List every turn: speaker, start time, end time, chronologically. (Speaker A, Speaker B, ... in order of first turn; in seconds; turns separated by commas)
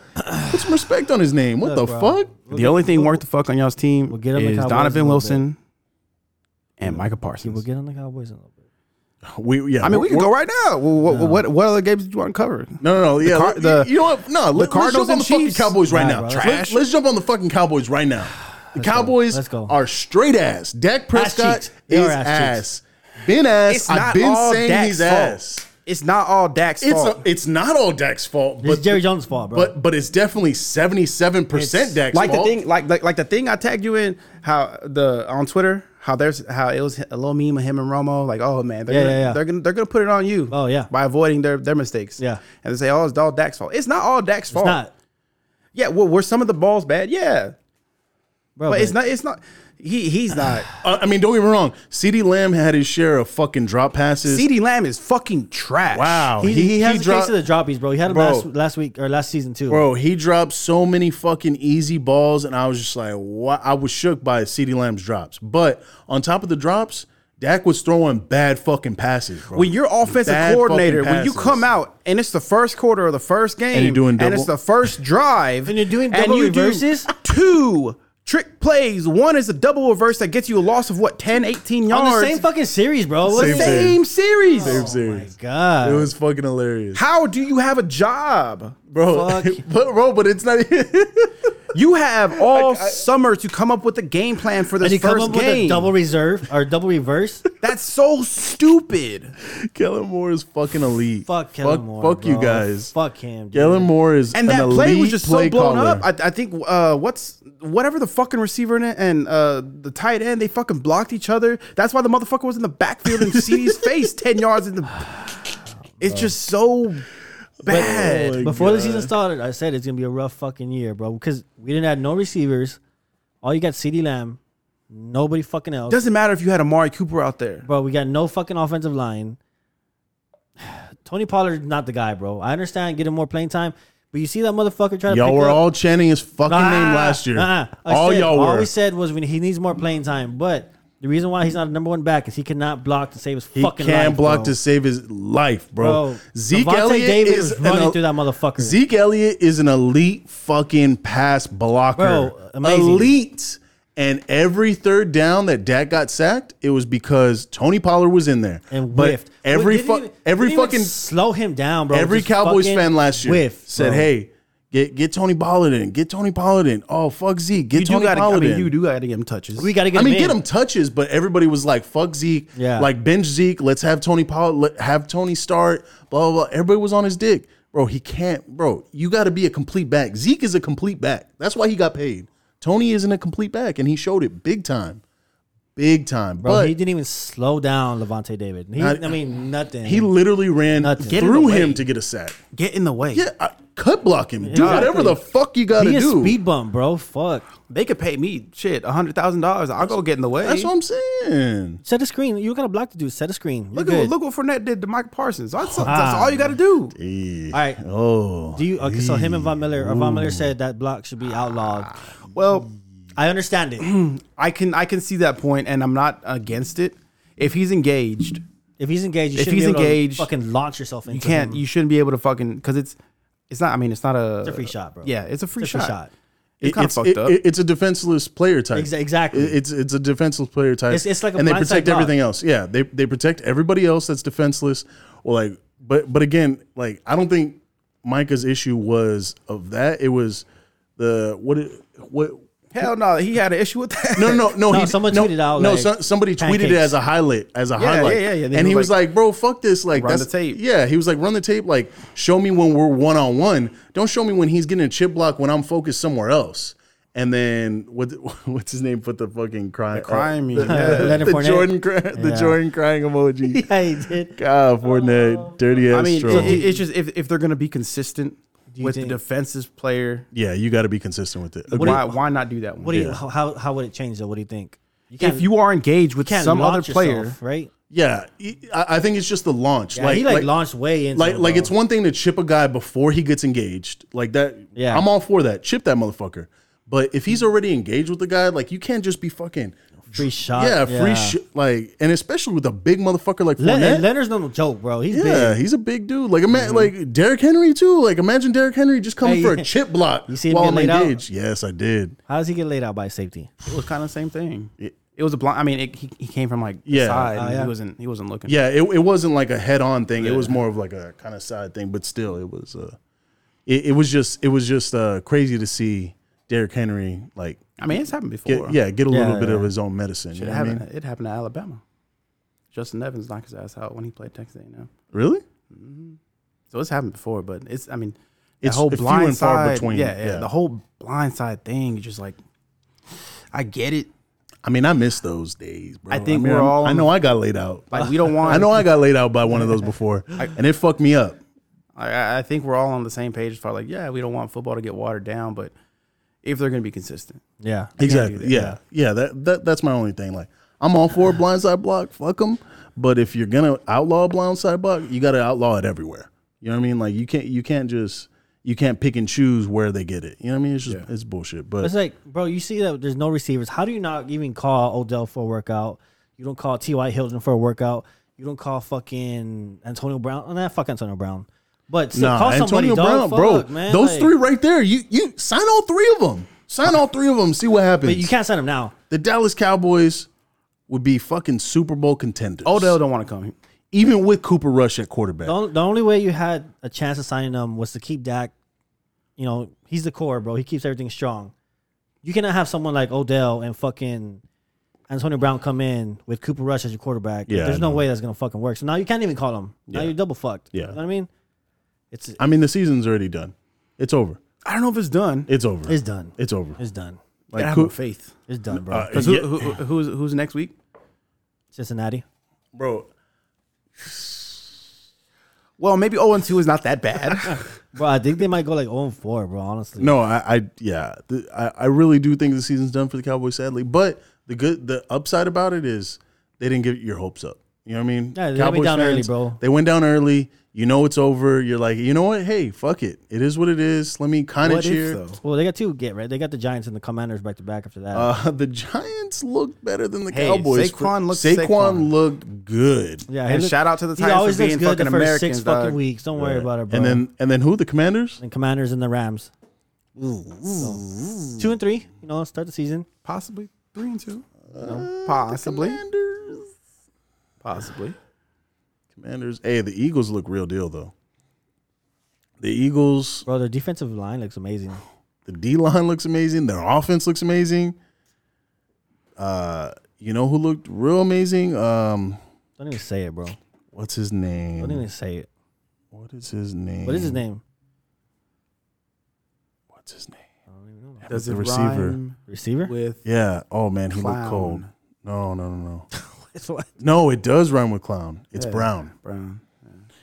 Speaker A: 0.4-2.3, Speaker B: 1.6-3.2, Speaker C: 2.5-5.6, Speaker B: 4.1-5.4, Speaker C: 6.8-7.6, Speaker B: 6.8-8.6, Speaker A: 9.2-10.3, Speaker C: 9.8-13.9, Speaker B: 11.1-11.4, Speaker A: 12.8-25.7, Speaker C: 14.5-16.8, Speaker B: 15.9-16.6, Speaker B: 18.7-19.7, Speaker B: 21.1-22.6, Speaker C: 23.7-27.2, Speaker A: 26.8-32.6, Speaker B: 28.6-29.7, Speaker B: 31.5-32.0, Speaker C: 32.1-44.8, Speaker B: 38.9-39.4, Speaker B: 40.5-40.9, Speaker B: 44.5-44.9, Speaker C: 45.7-47.5, Speaker B: 48.6-49.0, Speaker C: 48.7-50.7, Speaker A: 50.8-54.5, Speaker C: 54.2-56.4, Speaker A: 55.9-57.3, Speaker B: 56.4-59.9, Speaker A: 58.0-58.5, Speaker A: 59.7-71.7, Speaker C: 69.5-82.4, Speaker A: 73.7-74.5, Speaker B: 75.7-77.1, Speaker B: 81.9-83.9, Speaker A: 83.3-84.0, Speaker C: 83.3-84.8, Speaker B: 84.5-86.1, Speaker A: 84.6-87.0, Speaker C: 86.9-88.8, Speaker A: 88.9-91.5, Speaker B: 89.0-89.6, Speaker C: 91.7-95.9, Speaker A: 92.4-93.0, Speaker B: 94.8-97.4, Speaker C: 97.6-99.3, Speaker A: 99.5-102.9, Speaker B: 101.3-103.9, Speaker A: 103.5-106.0, Speaker C: 104.3-115.3, Speaker A: 113.1-113.9, Speaker C: 116.0-117.1, Speaker B: 116.0-116.3, Speaker C: 117.6-118.5, Speaker A: 117.6-119.1, Speaker B: 118.4-122.8, Speaker B: 123.4-124.4, Speaker B: 124.9-126.0, Speaker C: 125.9-127.7, Speaker B: 127.6-129.4, Speaker B: 130.6-135.6, Speaker A: 135.1-138.7, Speaker B: 136.5-144.6, Speaker A: 143.5-148.0, Speaker B: 145.8-148.8, Speaker A: 148.6-160.9, Speaker B: 152.0-153.1, Speaker B: 158.7-164.1, Speaker A: 161.9-168.7, Speaker C: 167.7-169.7, Speaker B: 169.6-170.4, Speaker A: 169.9-185.0, Speaker B: 172.6-172.9, Speaker A: 185.8-186.7, Speaker B: 186.4-190.1, Speaker A: 188.8-189.2, Speaker A: 189.8-192.4, Speaker B: 190.8-191.4, Speaker C: 191.1-191.8, Speaker C: 192.5-193.3, Speaker A: 193.1-196.4, Speaker B: 194.4-195.2, Speaker C: 194.6-195.0, Speaker B: 195.7-197.5, Speaker C: 197.7-200.7, Speaker A: 200.4-201.8, Speaker B: 201.8-204.1, Speaker C: 203.7-206.9, Speaker B: 205.8-206.5, Speaker A: 206.9-210.5, Speaker B: 207.5-207.8, Speaker B: 208.6-211.9, Speaker C: 212.3-212.7, Speaker B: 213.2-213.9, Speaker C: 213.8-218.4, Speaker B: 218.8-221.6, Speaker C: 219.3-220.3, Speaker C: 221.1-223.0, Speaker C: 223.5-226.0, Speaker B: 224.4-226.1, Speaker C: 226.6-227.4, Speaker A: 226.6-240.4, Speaker B: 228.7-229.6, Speaker B: 230.9-232.1, Speaker A: 241.0-242.9, Speaker C: 242.7-244.5, Speaker A: 244.2-263.7, Speaker B: 244.7-247.0, Speaker C: 247.8-248.9, Speaker C: 249.9-250.6, Speaker C: 259.9-261.2, Speaker B: 260.6-262.6, Speaker B: 263.5-264.4, Speaker A: 264.3-266.6, Speaker C: 265.9-270.3, Speaker B: 266.3-266.8, Speaker B: 268.7-269.2, Speaker A: 270.3-272.0, Speaker C: 271.7-273.0, Speaker B: 271.7-272.2, Speaker B: 272.8-275.5, Speaker A: 272.9-273.2, Speaker C: 275.2-277.4, Speaker B: 276.2-277.7, Speaker A: 277.9-280.5, Speaker B: 279.9-281.7, Speaker A: 281.1-294.1, Speaker B: 284.8-285.1, Speaker B: 290.1-291.4, Speaker B: 293.6-295.6, Speaker A: 295.1-302.2, Speaker C: 296.6-296.8, Speaker B: 299.2-299.7, Speaker B: 300.3-301.2, Speaker B: 302.3-303.5, Speaker C: 303.6-308.6, Speaker A: 306.9-307.3, Speaker B: 307.3-307.7, Speaker A: 308.5-313.0, Speaker C: 310.2-310.6, Speaker A: 313.7-317.8, Speaker C: 317.8-318.8, Speaker A: 318.5-320.8, Speaker B: 319.1-319.7, Speaker C: 320.4-321.8, Speaker C: 322.7-324.9, Speaker A: 325.1-325.4, Speaker C: 325.7-326.2, Speaker C: 326.7-332.4, Speaker A: 328.6-330.5, Speaker C: 333.5-334.1, Speaker A: 334.6-341.4, Speaker C: 336.1-337.1, Speaker C: 337.9-338.9, Speaker C: 341.9-345.7, Speaker C: 346.4-347.4, Speaker B: 347.6-348.8, Speaker C: 348.0-348.7, Speaker A: 348.0-361.9, Speaker B: 361.8-374.3, Speaker A: 372.1-378.3, Speaker B: 378.0-378.9, Speaker A: 379.1-380.3, Speaker A: 380.9-383.0, Speaker C: 382.6-383.6, Speaker A: 383.9-385.6, Speaker B: 385.4-388.5, Speaker B: 389.4-391.5, Speaker B: 392.2-394.4, Speaker B: 395.1-401.3, Speaker A: 397.5-398.0, Speaker B: 402.1-402.4, Speaker A: 402.4-404.4, Speaker C: 404.6-405.5, Speaker A: 405.5-406.8, Speaker B: 405.9-407.2, Speaker A: 407.5-407.9, Speaker C: 407.5-408.3, Speaker B: 408.5-409.2, Speaker A: 408.7-409.8, Speaker C: 409.1-410.7, Speaker B: 411.7-412.2, Speaker A: 412.7-413.1, Speaker A: 414.0-414.8, Speaker C: 415.8-417.7, Speaker B: 417.9-420.2, Speaker A: 420.0-435.2, Speaker B: 428.4-429.6, Speaker C: 434.6-435.4, Speaker B: 435.4-438.3, Speaker A: 438.1-443.3, Speaker C: 440.3-442.1, Speaker B: 443.3-447.2, Speaker C: 443.5-446.0, Speaker A: 446.4-448.4, Speaker B: 448.4-449.5, Speaker A: 450.2-451.7, Speaker B: 450.7-451.0, Speaker B: 451.6-453.1, Speaker C: 453.2-456.0, Speaker A: 454.7-456.7, Speaker C: 457.6-458.2, Speaker A: 459.1-461.1, Speaker A: 462.6-463.5, Speaker B: 463.5-465.0, Speaker A: 465.4-467.9, Speaker A: 469.4-472.4, Speaker B: 472.8-473.6, Speaker A: 473.9-475.1, Speaker B: 474.8-475.5, Speaker A: 476.1-477.4, Speaker B: 477.0-477.6, Speaker A: 479.9-480.4, Speaker B: 480.7-481.2, Speaker A: 481.2-482.2, Speaker C: 481.3-483.2, Speaker B: 482.5-482.9, Speaker A: 483.2-486.1, Speaker C: 484.1-484.9, Speaker B: 486.2-486.9, Speaker A: 487.0-489.1, Speaker C: 488.6-490.0